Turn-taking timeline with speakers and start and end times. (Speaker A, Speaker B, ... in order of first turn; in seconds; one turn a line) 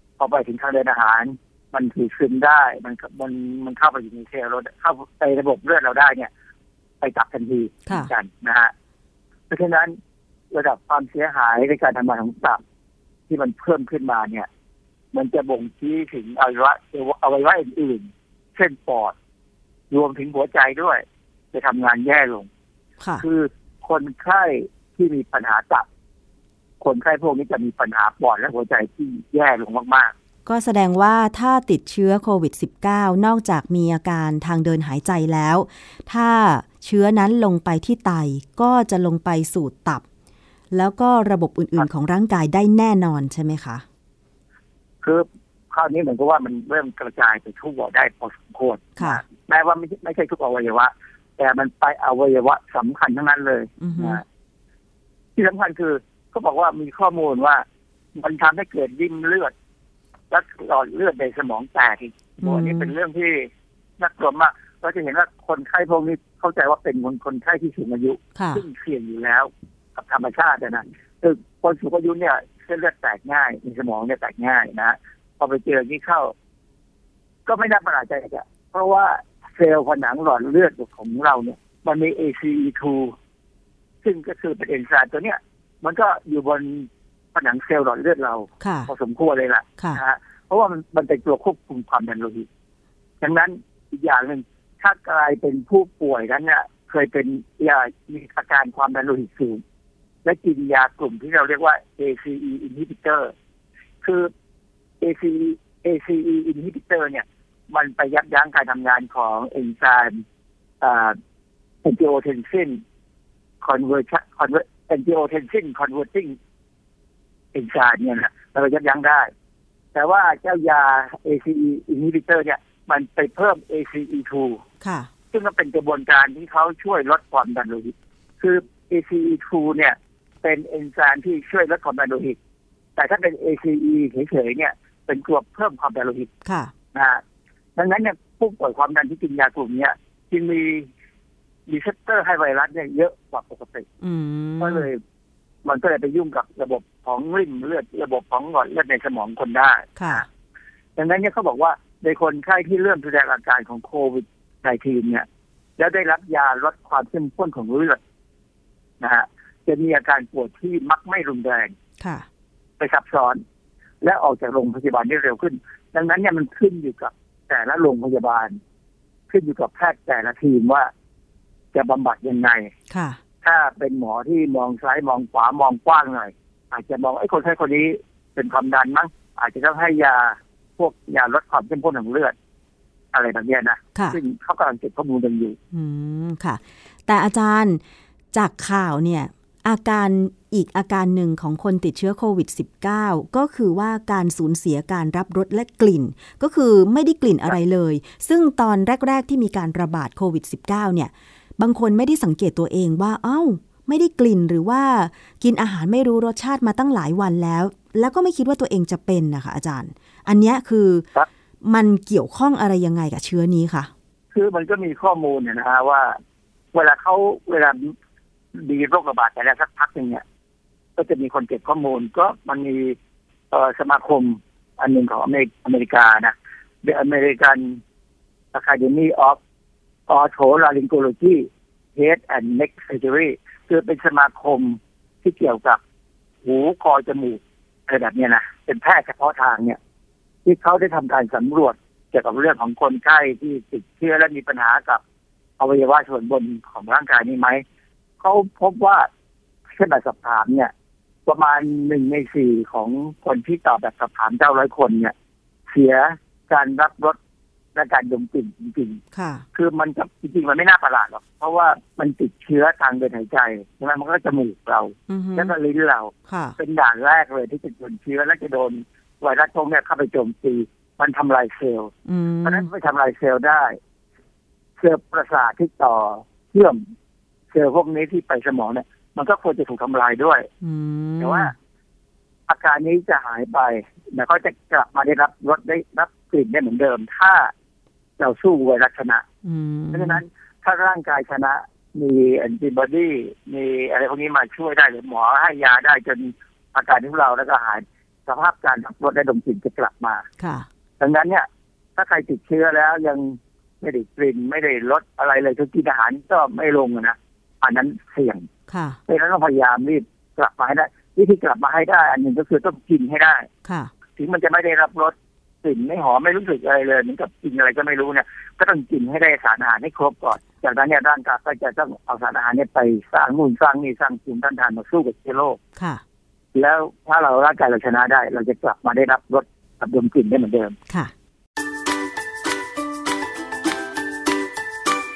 Speaker A: 0.2-6.3
Speaker A: 7.0-8.7
Speaker A: 9.5-10.0
Speaker A: 10.5-12.6
Speaker A: 13.3-14.5
Speaker A: 15.1-19.1
Speaker A: 19.9-22.5
Speaker A: 23.2-25.9
Speaker A: 26.8-30.1
Speaker B: 30.5-40.0
Speaker B: 40.7-43.8
Speaker A: 45.0-54.2
Speaker B: 49.0-49.2
Speaker B: 53.8-54.2
Speaker A: 55.4-57.6
Speaker A: 58.1-59.5
Speaker A: 60.3-76.3
Speaker B: 62.4-63.0
Speaker B: 68.4-68.6
Speaker A: 77.5-83.2
Speaker A: 84.0-92.5
Speaker B: 88.6-88.9
Speaker A: 93.2-99.6
Speaker A: 100.2-103.3
Speaker A: 104.0-104.3
Speaker A: 105.0-110.2
Speaker A: 110.8-111.2
Speaker A: 111.8-112.8
Speaker A: 113.6-116.4
Speaker A: 117.5-119.3
Speaker A: 119.9-124.6
Speaker B: 124.8-125.1
Speaker A: 125.3-132.4
Speaker A: 133.0-136.3
Speaker B: 136.4-136.7
Speaker A: 136.9-137.2
Speaker A: 137.8-140.9
Speaker A: 141.7-143.9
Speaker B: 144.0-144.9
Speaker A: 144.6-145.0
Speaker A: 145.6-150.3
Speaker B: 150.0-150.3
Speaker A: 151.0-155.3
Speaker A: 155.8-158.0
Speaker A: 159.0-161.7
Speaker B: 162.0-162.3
Speaker A: 162.8-163.4
Speaker A: 164.0-168.6
Speaker A: 169.3-170.9
Speaker A: 171.7-172.7
Speaker B: 172.9-173.2
Speaker A: 173.4-182.3
Speaker A: 183.1-185.6
Speaker B: 183.9-184.2
Speaker B: 185.7-187.8
Speaker B: 188.3-211.1
Speaker B: 211.6-213.9
Speaker A: 214.3-216.2
Speaker A: 216.7-217.9
Speaker A: 218.6-220.2
Speaker A: 221.0-223.0
Speaker A: 223.5-227.8
Speaker A: 228.5-229.4
Speaker A: 230.1-235.8
Speaker A: 236.4-239.8
Speaker A: 240.4-245.0
Speaker A: 245.6-247.6
Speaker A: 248.2-249.1
Speaker A: 249.7-250.7
Speaker A: 251.3-255.1
Speaker A: 255.7-257.2
Speaker A: 257.8-259.0
Speaker B: 259.1-259.4
Speaker A: 259.5-271.9
Speaker B: 265.1-265.5
Speaker B: 266.3-266.6
Speaker B: 272.1-272.7
Speaker A: 272.4-273.8
Speaker A: 274.8-276.8
Speaker A: 277.5-280.5
Speaker B: 280.6-281.5
Speaker A: 281.2-281.5
Speaker A: 282.5-287.5
Speaker A: 288.2-289.2
Speaker B: 289.4-290.2
Speaker A: 289.9-300.2
Speaker B: 300.4-300.7
Speaker A: 301.0-308.5
Speaker B: 308.7-309.0
Speaker A: 309.1-313.5
Speaker B: 313.6-313.9
Speaker A: 314.2-325.6
Speaker B: 325.8-326.0
Speaker A: 326.6-330.8